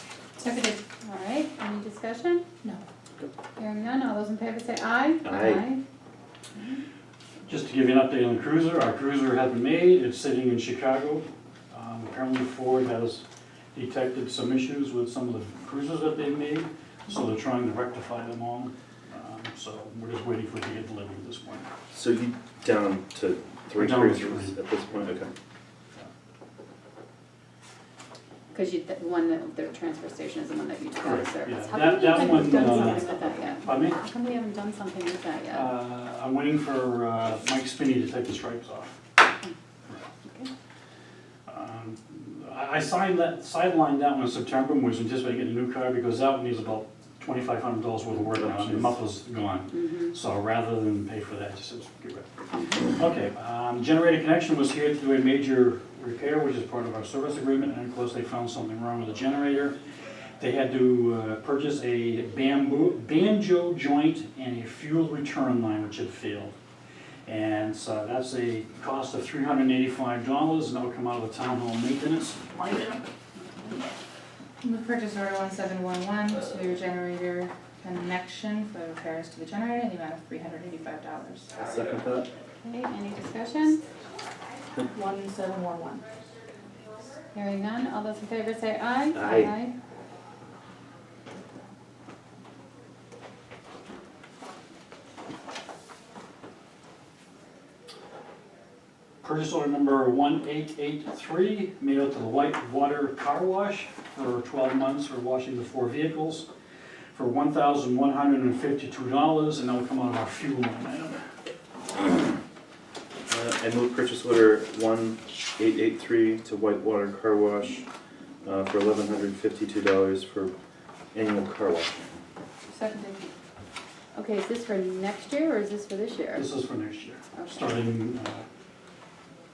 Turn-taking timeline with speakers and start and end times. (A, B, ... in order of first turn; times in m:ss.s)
0:00.4-0:00.8 A
0:00.9-0:02.4 B
0:03.6-0:05.8 B
0:05.2-0:05.6 C
0:07.4-0:21.7 D
0:21.9-0:25.3 C
0:23.7-0:24.6 D
0:28.5-0:35.7 B
0:31.0-0:34.0 D
0:35.5-0:39.0 D
0:40.2-0:40.5 B
0:41.5-0:59.8 D
0:48.1-0:49.0 C
0:49.8-0:50.1 B
0:52.5-0:52.8 B
1:00.4-1:06.5 D
1:07.2-1:13.0 D
1:13.4-1:13.8 B
1:14.6-1:21.5 A
1:21.5-1:22.3 C
1:22.6-1:23.8 B
1:24.9-1:26.0 A
1:27.3-1:29.7 B
1:29.1-1:29.5 C
1:39.2-1:46.5 D
1:47.1-1:51.2 D
1:53.3-1:57.8 C
1:58.4-2:00.5 C
2:01.1-2:02.2 C
2:02.7-2:03.3 A
2:04.1-2:06.5 B
2:06.3-2:08.4 D
2:07.3-2:07.8 B